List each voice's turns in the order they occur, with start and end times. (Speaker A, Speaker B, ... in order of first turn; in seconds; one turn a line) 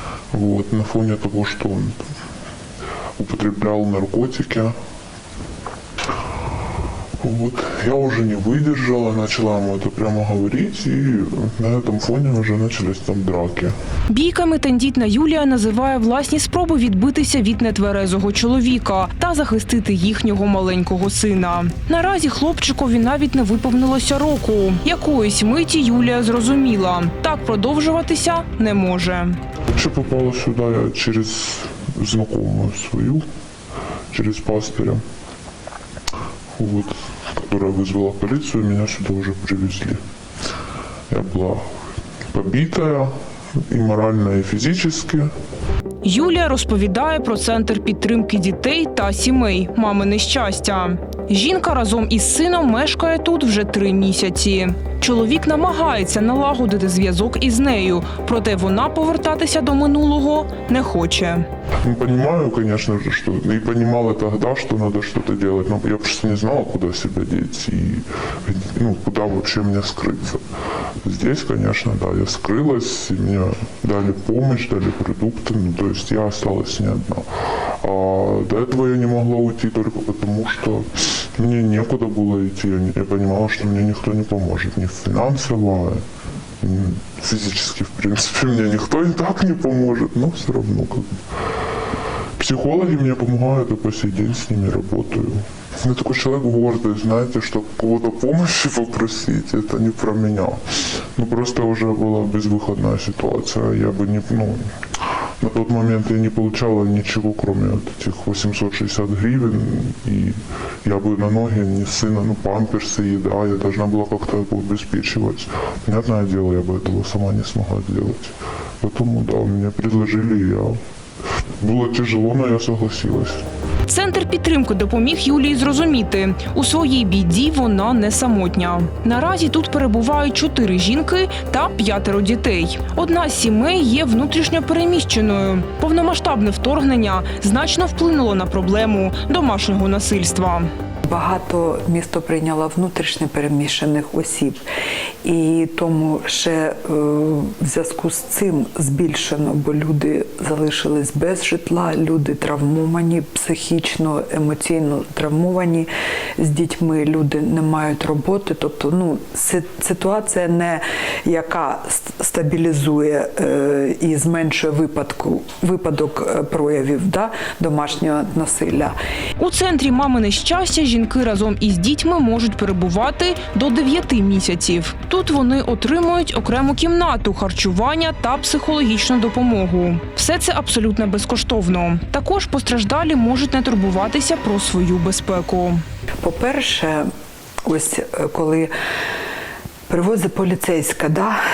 Speaker A: 0.3-2.0
Speaker A: 3.2-4.7
Speaker A: 7.2-13.7
Speaker B: 14.1-29.4
Speaker A: 29.7-33.2
Speaker A: 34.1-35.0
Speaker A: 36.6-40.0
Speaker A: 41.1-41.7
Speaker A: 42.3-43.1
Speaker A: 43.7-45.3
Speaker B: 46.0-61.5
Speaker A: 61.8-70.4
Speaker A: 71.0-77.3
Speaker A: 77.8-86.0
Speaker A: 86.6-91.2
Speaker A: 92.4-100.6
Speaker A: 101.2-104.7
Speaker A: 105.4-120.8
Speaker A: 121.6-123.5
Speaker B: 123.9-140.7
Speaker C: 141.1-144.7
Speaker C: 145.2-169.0
Speaker B: 169.4-185.8
Speaker C: 186.2-187.1
Speaker C: 187.7-188.7
Speaker C: 189.9-191.4